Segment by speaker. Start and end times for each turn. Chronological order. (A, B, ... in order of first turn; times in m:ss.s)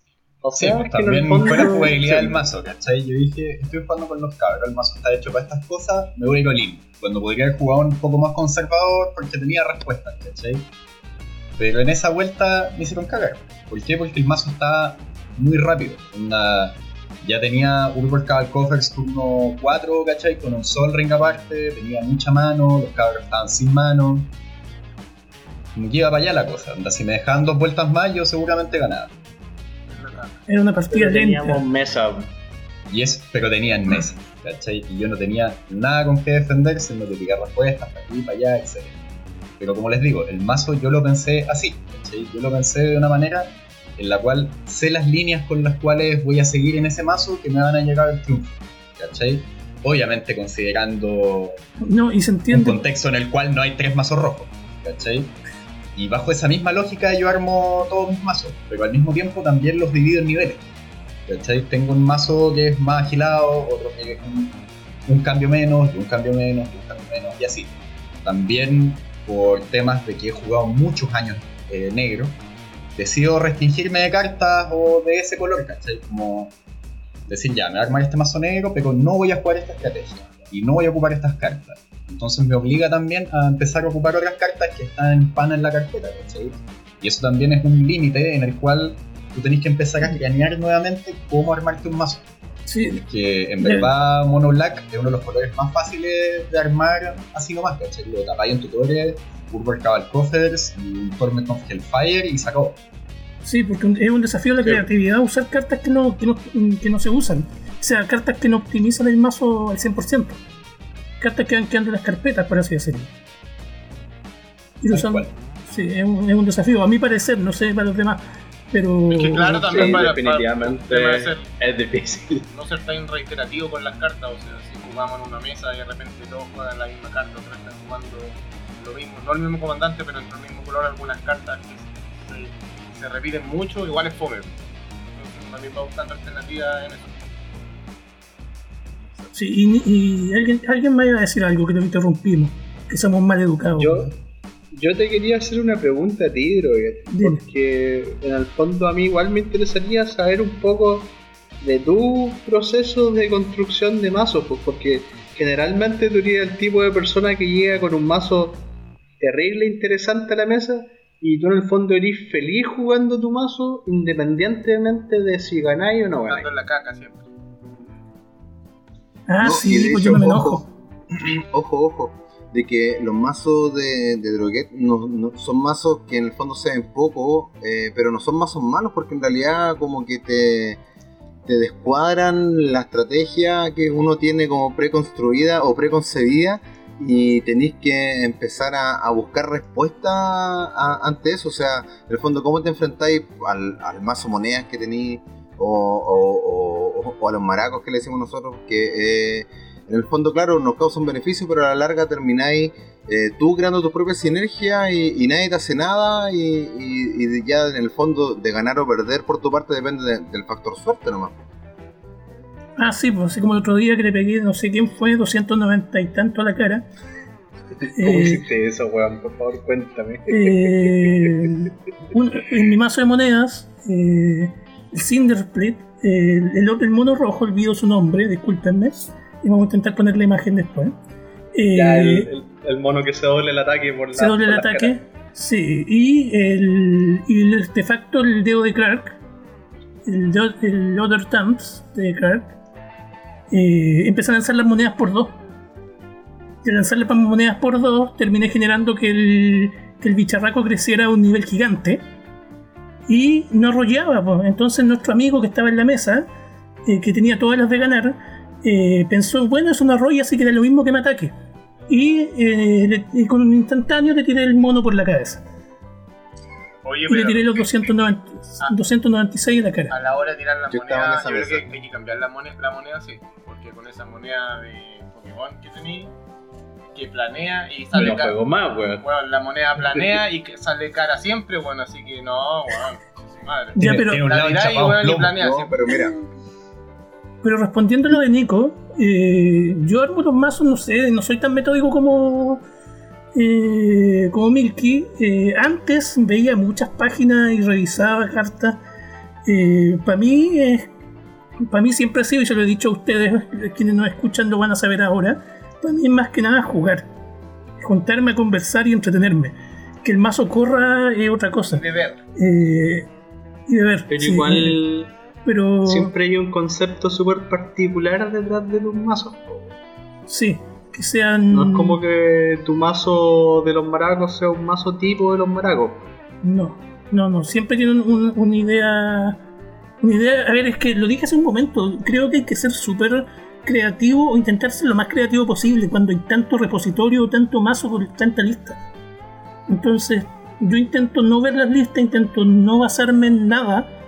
0:00.4-0:02.5 A
0:00.5-0:10.7 B
0:11.6-0:24.3 B
0:25.8-0:29.1 B
0:29.9-0:30.3 C
0:30.5-0:31.6 D
0:30.9-0:32.3 A
0:32.9-0:39.0 B
0:39.6-0:51.6 B
0:51.8-0:52.8 D
0:52.5-0:55.3 B
0:56.0-1:00.6 B
1:01.3-1:07.7 B
1:08.2-1:12.4 B
1:13.0-1:16.6 B
1:17.3-1:32.3 B
1:32.7-1:33.0 D
1:32.8-1:42.8 B
1:33.6-1:33.9 D
1:43.4-1:50.4 D
1:51.2-1:53.1 D
1:54.8-2:00.0 D
1:54.9-1:55.3 B
1:59.1-2:01.5 C
1:59.7-2:02.5 A
2:02.5-2:14.6 C
2:15.2-2:17.2 C
2:19.3-2:24.1 D
2:23.8-2:24.2 A
2:24.7-2:38.6 A
2:27.1-2:27.4 D
2:39.2-2:46.5 A
2:46.3-2:47.2 C
2:49.3-2:50.6 D
2:49.4-3:00.8 E
3:01.5-3:31.4 E
3:32.8-3:36.9 D
3:37.9-3:38.4 D
3:38.0-3:41.6 A
3:40.3-3:51.0 D
3:51.6-3:52.3 D
3:51.7-3:55.0 A
3:54.2-3:59.2 D
4:00.1-4:02.6 D
4:03.5-4:05.4 D
4:06.6-4:12.0 D
4:13.1-4:16.3 D
4:16.9-4:21.3 D
4:21.9-4:25.4 D
4:26.8-4:27.7 C
4:27.1-4:30.0 D
4:29.9-4:36.1 C
4:30.7-4:31.7 E
4:37.0-4:38.4 C
4:37.9-4:39.0 A
4:39.0-4:45.8 C
4:43.8-4:44.2 D
4:43.8-4:45.4 B
4:45.4-4:46.2 E
4:47.4-4:52.6 D
4:53.4-4:58.8 D
4:59.5-5:00.9 D
5:01.6-5:07.1 D
5:07.8-5:11.8 D
5:11.7-5:12.2 C
5:12.4-5:13.1 D
5:13.7-5:14.8 D
5:14.1-5:15.1 A
5:15.4-5:16.1 D
5:15.8-5:19.4 A
5:20.3-5:22.0 D
5:21.5-5:26.1 A
5:26.4-5:29.4 D
5:30.0-5:38.8 D
5:39.7-5:43.9 D